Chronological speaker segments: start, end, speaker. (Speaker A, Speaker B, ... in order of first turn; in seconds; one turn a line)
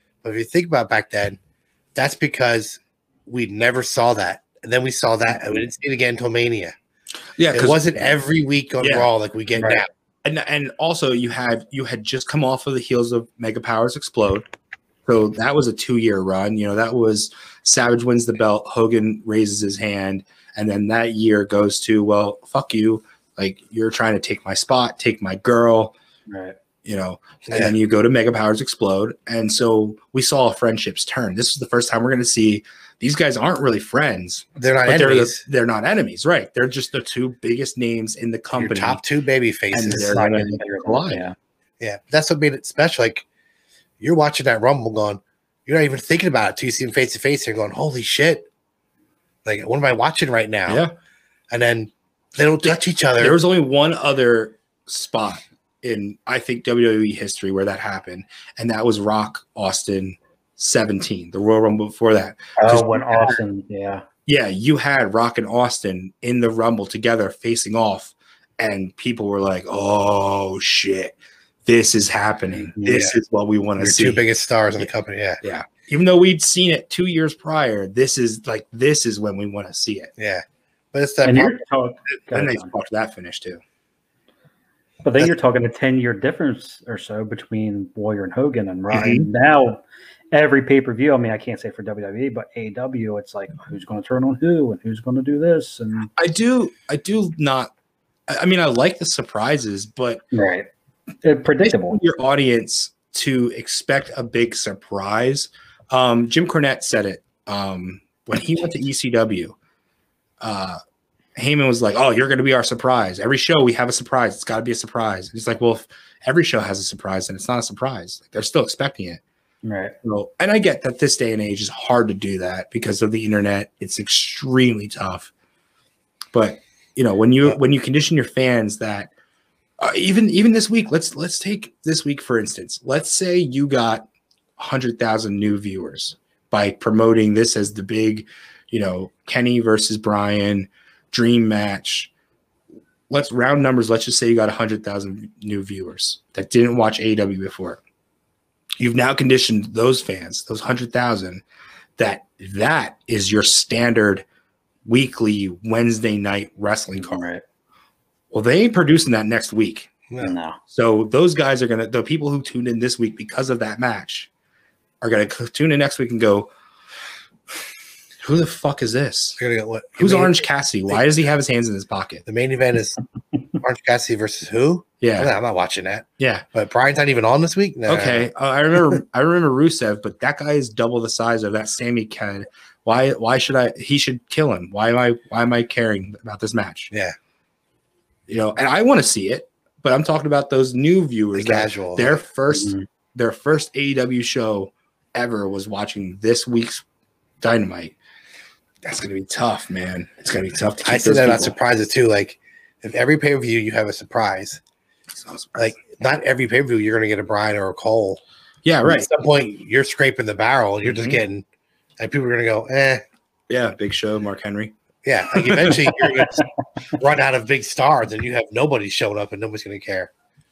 Speaker A: 0.2-1.4
Speaker A: 1.9-6.8
Speaker B: 7.4-8.2
Speaker A: 7.5-9.9
Speaker B: 8.8-9.1
Speaker C: 9.6-9.8
Speaker B: 10.2-14.5
Speaker B: 15.1-25.9
Speaker C: 26.3-26.6
Speaker B: 26.9-39.0
Speaker A: 34.6-35.4
Speaker A: 38.5-40.4
Speaker B: 39.7-41.2
Speaker C: 40.0-41.4
Speaker A: 41.8-43.2
Speaker A: 44.0-48.5
Speaker A: 49.5-50.8
Speaker B: 50.7-50.9
Speaker A: 51.5-53.4
Speaker B: 52.6-63.4
Speaker C: 62.6-64.0
Speaker B: 64.3-71.2
Speaker B: 71.7-74.2
Speaker C: 72.6-72.9
Speaker A: 72.8-73.2
Speaker A: 73.8-75.4
Speaker B: 75.4-80.1
Speaker A: 80.2-81.6
Speaker C: 81.2-82.7
Speaker B: 82.3-83.6
Speaker C: 85.0-96.1
Speaker B: 88.9-89.3
Speaker B: 96.2-97.7
Speaker B: 98.3-100.2
Speaker C: 100.3-100.7
Speaker C: 101.2-102.0
Speaker B: 101.6-109.6
Speaker B: 110.4-110.8
Speaker B: 111.3-119.2
Speaker C: 119.6-120.0
Speaker B: 120.0-125.3
Speaker B: 126.3-129.1
Speaker B: 129.8-134.1
Speaker B: 134.6-142.1
Speaker B: 143.1-147.8
Speaker B: 148.8-151.4
Speaker B: 152.0-154.2
Speaker B: 154.8-157.3
Speaker C: 157.0-157.4
Speaker B: 158.3-159.9
Speaker C: 160.2-160.6
Speaker B: 160.7-164.3
Speaker B: 165.0-166.5
Speaker B: 168.2-169.4
Speaker A: 169.4-170.4
Speaker B: 170.0-172.2
Speaker A: 172.3-173.0
Speaker A: 173.6-178.3
Speaker B: 175.0-175.3
Speaker B: 176.2-176.4
Speaker B: 177.9-186.9
Speaker B: 188.3-196.8
Speaker A: 191.3-192.2
Speaker C: 192.5-192.8
Speaker B: 197.4-197.9
Speaker B: 198.8-201.5
Speaker A: 200.9-204.6
Speaker B: 205.1-205.7
Speaker A: 205.6-208.2
Speaker B: 208.7-209.1
Speaker A: 208.8-211.4
Speaker B: 210.8-211.2
Speaker A: 212.0-213.0
Speaker B: 213.5-214.7
Speaker A: 215.1-220.1
Speaker B: 215.3-216.0